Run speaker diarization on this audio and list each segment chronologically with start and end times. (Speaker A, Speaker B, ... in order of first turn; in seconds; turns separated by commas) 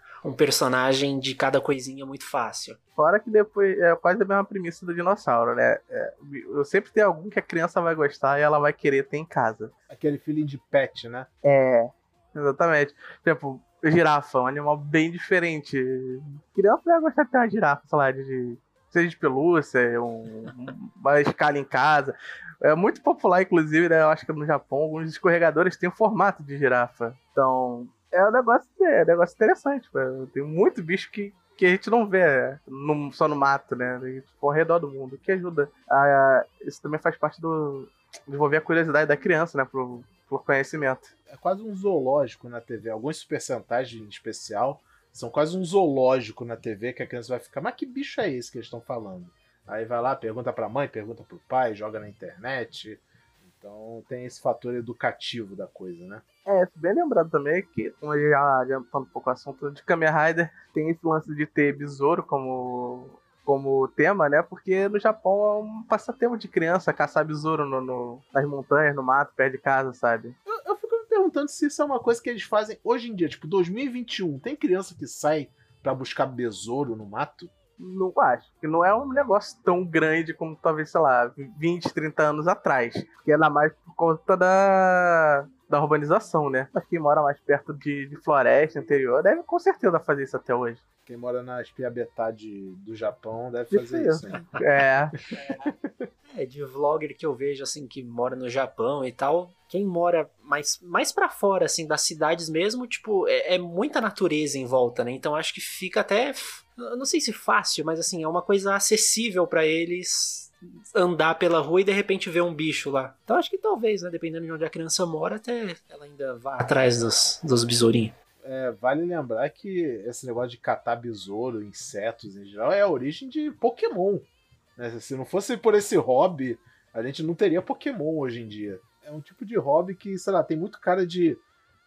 Speaker A: 0.2-2.8, Speaker B: 3.0-9.7, Speaker C: 9.9-11.3, Speaker B: 11.4-41.1, Speaker C: 41.3-56.2, Speaker B: 56.5-70.4, Speaker C: 70.5-77.5, Speaker B: 77.8-90.8, Speaker C: 91.1-94.5, Speaker B: 93.7-95.2, Speaker C: 95.6-95.9, Speaker A: 96.3-118.1, Speaker C: 118.4-131.4